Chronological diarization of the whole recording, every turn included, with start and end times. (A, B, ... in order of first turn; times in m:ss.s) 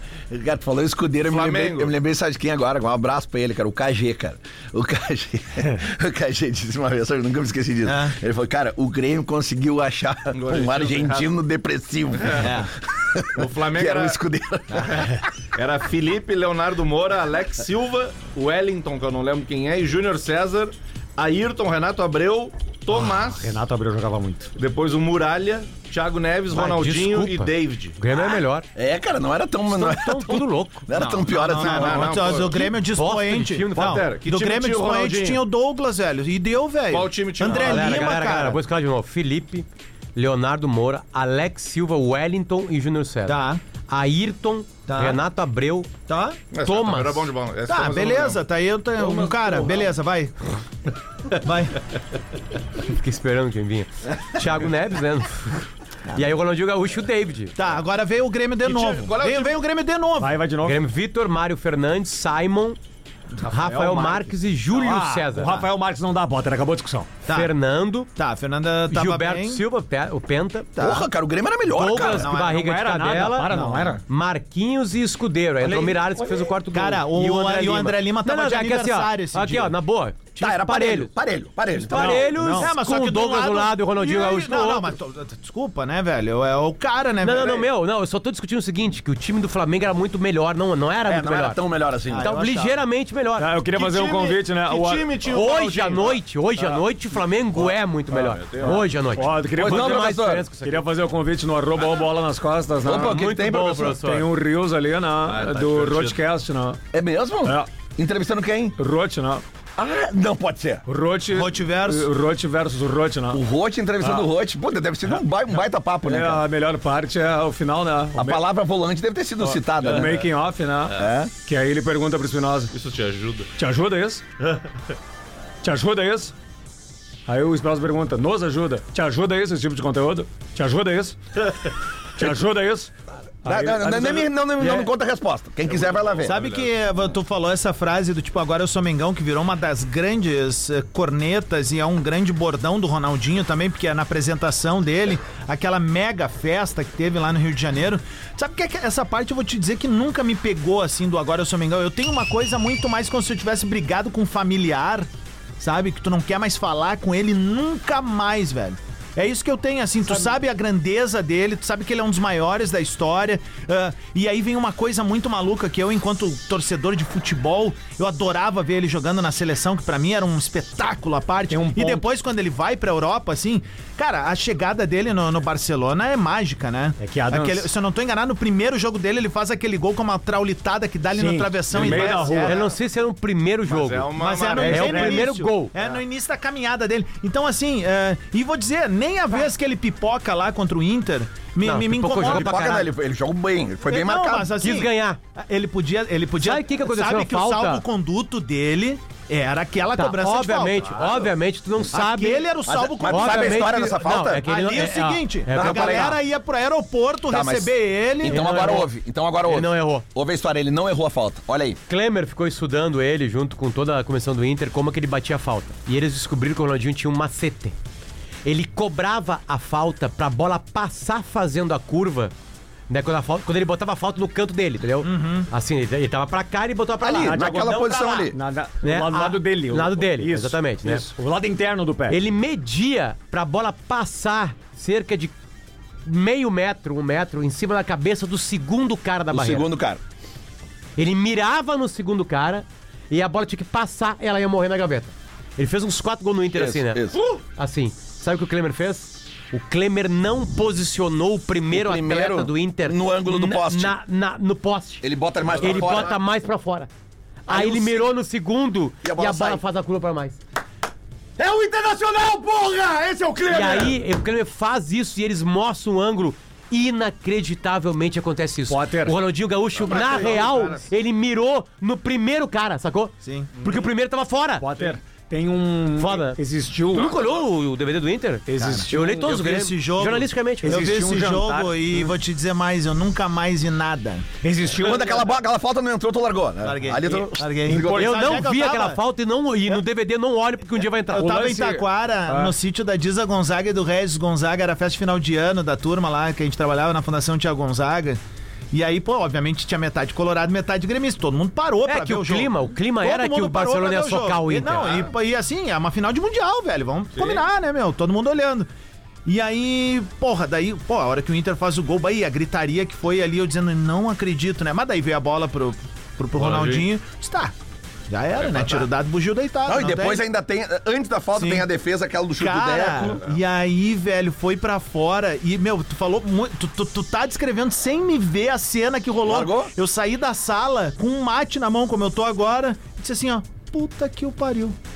0:00.3-0:15.2 A
0:01.3-0:01.9 B
0:07.9-0:08.2 C
0:10.3-0:11.3 B
0:12.4-0:12.7 C
0:13.4-0:14.2 B
0:14.8-0:23.6 B
0:22.9-0:24.5 D
0:24.6-0:28.0 B
0:26.5-0:28.7 E
0:28.8-0:32.4 A
0:29.7-0:30.9 E
0:30.9-0:38.6 C
0:31.4-0:32.7 B
0:32.8-0:34.0 E
0:33.7-0:35.4 B
0:36.9-0:38.3 B
0:37.5-0:45.9 E
0:43.3-0:43.6 C
0:44.9-0:45.2 C
0:46.1-0:46.4 C
0:46.5-0:48.4 B
0:46.6-0:47.3 E
0:47.7-0:50.3 C
0:49.0-0:49.8 B
0:51.4-0:51.8 C
0:52.8-0:57.5 E
0:57.6-1:00.4 C
0:58.6-0:59.6 B
1:00.2-1:00.8 D
1:00.6-1:02.8 E
1:03.4-1:05.7 E
1:03.5-1:04.1 B
1:04.7-1:07.1 D
1:07.3-1:08.1 E
1:08.2-1:09.6 C
1:08.9-1:10.7 E
1:10.8-1:11.1 C
1:10.8-1:12.3 A
1:11.7-1:21.1 E
1:11.8-1:12.6 C
1:12.4-1:14.0 D
1:13.5-1:13.9 C
1:15.6-1:19.8 C
1:20.4-1:22.3 A
1:21.7-1:25.0 E
1:21.9-1:22.7 D
1:22.1-1:27.7 C
1:27.2-1:31.6 E
1:31.1-1:32.3 A
1:32.1-1:32.8 C
1:32.2-1:33.5 E
1:33.4-1:35.2 D
1:33.7-1:36.2 B
1:35.3-1:40.8 E
1:38.1-1:38.9 B
1:39.1-1:43.2 D
1:39.5-1:40.5 A
1:42.8-1:44.0 A
1:42.9-1:44.3 E
1:44.0-1:46.8 D
1:45.2-1:46.2 B
1:46.9-1:48.8 A
1:47.4-1:47.7 D
1:48.8-1:49.4 D
1:49.8-1:50.8 A
1:50.9-1:53.4 D
1:51.3-1:52.1 C
1:53.3-1:56.4 A
1:56.0-1:58.4 D
1:58.2-2:00.2 A
1:59.4-2:02.7 D
1:59.9-2:00.2 B
2:01.0-2:01.3 A
2:02.7-2:03.5 B
2:03.6-2:04.2 D
2:05.6-2:06.3 D
2:07.3-2:11.2 D
2:12.2-2:12.9 D
2:13.4-2:14.7 D
2:13.4-2:16.4 A
2:15.8-2:16.6 B
2:16.2-2:35.1 C
2:35.6-3:02.6 C
2:51.5-2:52.0 D
2:57.0-2:57.7 D
3:01.1-3:02.5 D
3:01.8-3:02.6 B
3:02.4-3:05.7 E
3:03.7-3:05.0 B
3:04.2-3:12.8 C
3:04.6-3:05.3 D
3:11.6-3:12.9 E
3:12.2-3:14.6 A
3:13.9-3:21.3 C
3:14.6-3:15.2 E
3:16.4-3:17.8 E
3:20.0-3:22.5 E
3:21.9-3:28.8 C
3:22.6-3:24.5 A
3:23.0-3:26.2 E
3:25.5-3:26.2 A
3:27.3-3:31.8 A
3:28.2-3:28.9 E
3:29.4-3:30.0 E
3:31.9-3:37.8 E
3:38.4-3:42.3 E
3:42.9-3:51.1 E
3:45.0-3:45.5 C
3:47.0-3:48.4 A
3:47.2-3:47.8 D
3:48.3-3:52.2 D
3:52.1-3:55.3 E
3:56.1-3:59.7 E
3:59.3-4:00.0 A
4:01.0-4:15.1 E
4:06.5-4:07.2 A
4:11.7-4:14.0 A
4:15.0-4:16.2 A
4:15.5-4:16.2 B
4:15.6-4:16.9 E
4:17.5-4:20.4 E
4:17.5-4:18.1 A
4:19.0-4:19.6 A
4:21.4-4:24.0 A
4:23.5-4:34.7 E
4:28.7-4:29.2 D
4:29.7-4:30.9 B
4:33.2-4:33.5 C
4:33.6-4:33.9 B
4:34.6-4:37.1 D
4:36.0-4:36.4 E
4:36.9-4:41.0 E
4:38.5-4:39.3 D
4:38.6-4:44.2 C
4:40.6-4:42.1 D
4:44.4-4:45.2 D
4:44.7-4:48.1 A
4:46.6-4:49.0 C
4:47.7-4:48.2 D
4:47.9-4:51.4 E
4:51.1-4:58.2 C
4:51.1-4:52.6 D
4:58.7-5:08.7 C
5:01.8-5:05.1 E
5:04.8-5:05.1 B
5:07.2-5:07.4 B
5:09.2-5:17.5 C
5:16.4-5:16.9 B
5:18.1-5:20.2 C
5:18.4-5:18.9 B
5:19.6-5:23.2 A
5:21.4-5:21.6 C
5:22.4-5:34.8 C
5:29.2-5:29.7 A